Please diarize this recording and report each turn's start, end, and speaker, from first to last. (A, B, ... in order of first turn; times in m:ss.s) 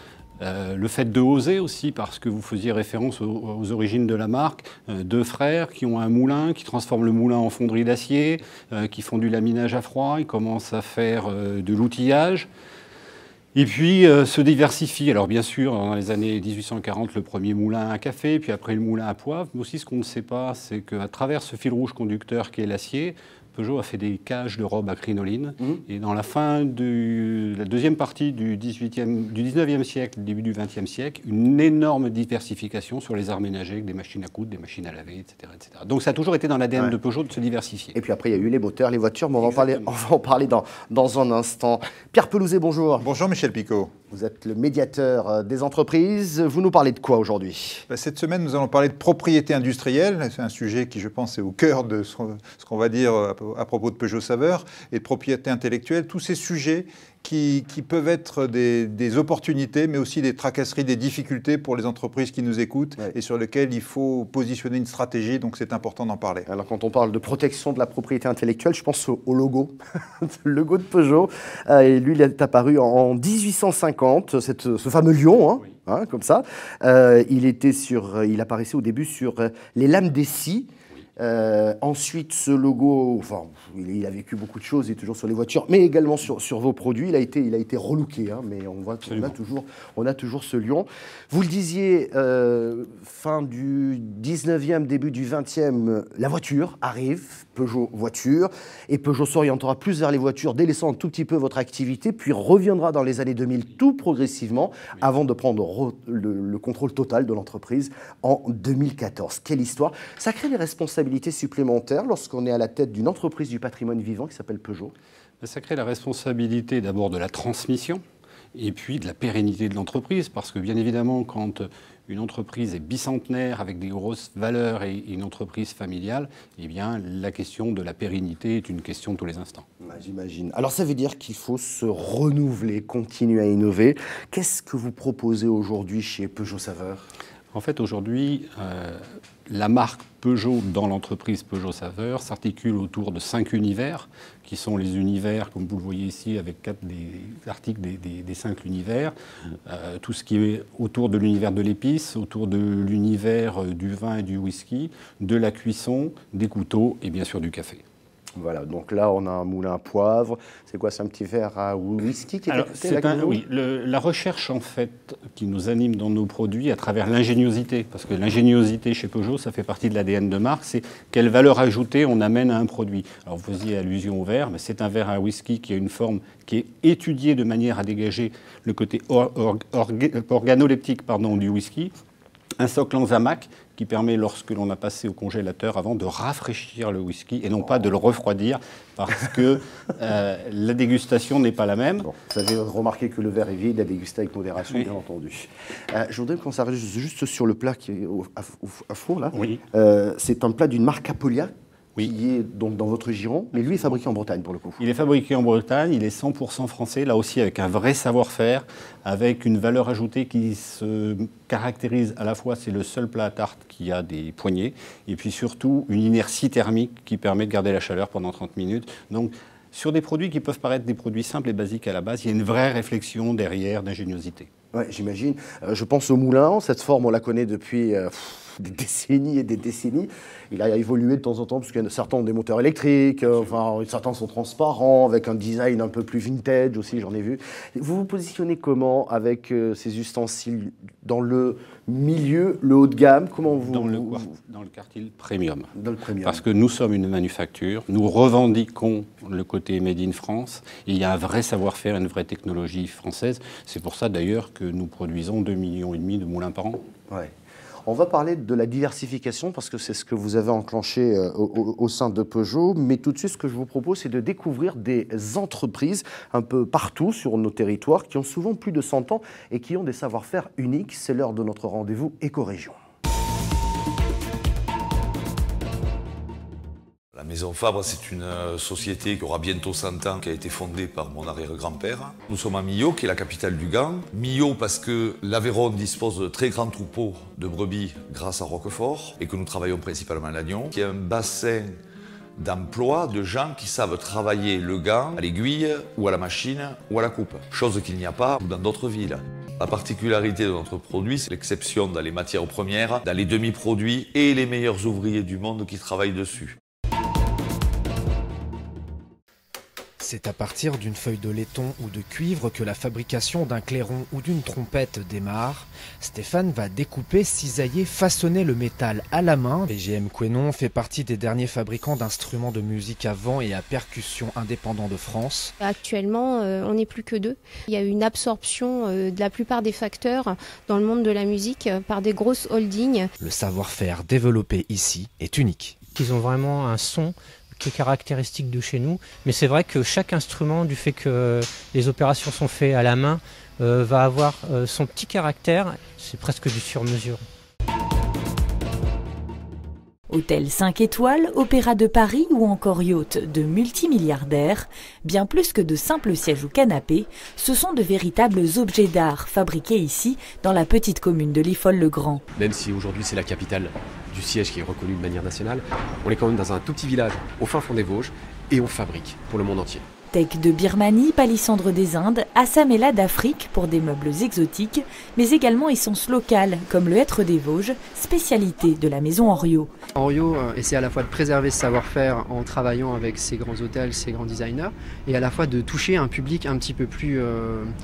0:00.4-0:12.5 A
0:13.5-0:37.9 A
0:37.9-0:43.1 B
0:39.4-0:39.9 A
0:43.0-0:43.9 C
0:44.1-0:47.8 B
0:47.9-1:06.5 C
1:06.4-1:54.9 B
1:29.0-1:29.3 A
1:55.4-1:58.0 A
1:58.5-2:09.6 A
2:09.8-2:17.0 B
2:17.5-2:29.1 A
2:29.6-2:37.8 A
2:38.4-2:43.4 B
2:42.5-3:01.9 A
3:02.6-3:12.1 A
3:12.0-3:24.8 B
3:19.3-3:19.6 A
3:23.6-3:24.0 A
3:24.8-3:44.5 A
3:44.7-4:04.3 B
4:03.5-4:05.7 A
4:05.7-4:06.4 B
4:06.2-4:16.8 A
4:17.8-4:32.8 B
4:37.1-4:51.7 D
4:52.4-5:06.6 D
5:10.0-5:25.5 E
5:25.6-5:33.1 F
5:33.2-5:35.8 E
5:35.9-5:47.2 G
5:50.1-6:02.2 H
6:02.3-6:09.8 I
6:10.1-6:19.7 H
6:20.0-6:27.6 J